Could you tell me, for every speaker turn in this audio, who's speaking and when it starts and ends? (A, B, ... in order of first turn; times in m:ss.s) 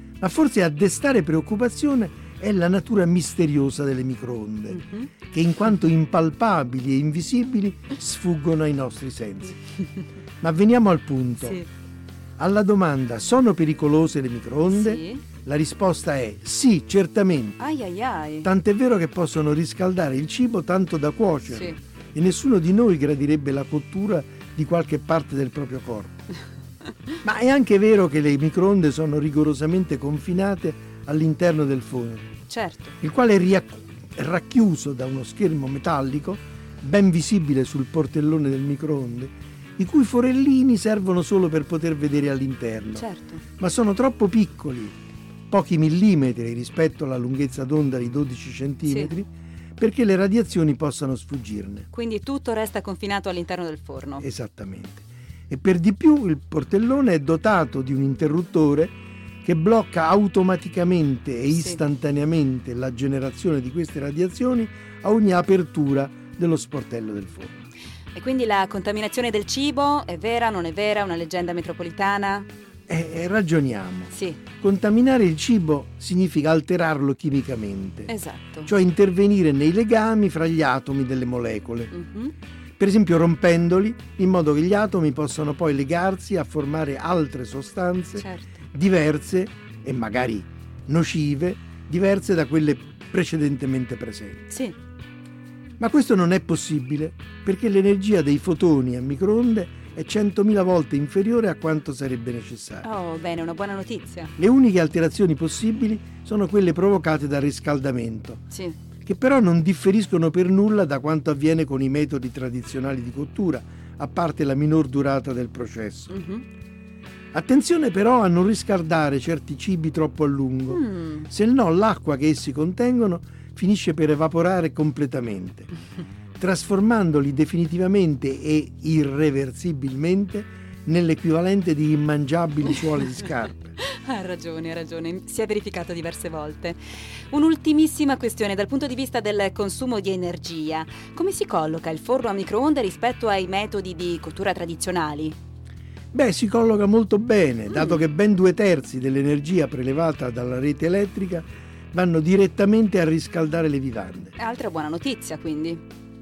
0:00.2-0:04.8 A
0:04.7-0:05.1 B
0:05.3-0:09.6 A
0:10.4-0:11.6 A
0:11.4-0:11.6 B
0:12.4-0:17.6 A
0:14.7-0:15.2 B
0:17.6-0:18.5 B
0:18.4-0:26.1 A
0:21.5-0:21.8 B
0:27.2-0:32.3 A
0:32.5-0:32.9 B
0:33.0-0:43.0 A
0:43.0-0:43.4 B
0:43.6-0:45.0 A
0:45.5-0:51.9 A
0:48.9-0:49.1 B
0:51.9-0:54.2 B
0:54.2-1:07.6 A
1:01.5-1:01.8 B
1:08.1-1:12.5 B
1:12.9-1:18.1 A
1:14.1-1:14.4 B
1:18.1-1:18.7 B
1:18.7-1:21.9 A
1:21.9-1:22.3 B
1:22.8-1:34.4 A
1:28.2-1:28.5 B
1:34.5-1:34.7 B
1:35.8-1:42.8 A
1:42.8-1:44.3 B
1:44.4-1:48.4 A
1:48.5-1:48.8 B
1:49.0-1:56.1 A
1:56.1-1:56.4 B
1:57.3-2:05.7 A
2:00.7-2:01.3 B
2:06.4-2:13.7 A
2:13.8-2:16.8 B
2:17.3-2:25.4 B
2:26.1-2:34.3 A
2:34.3-2:35.8 B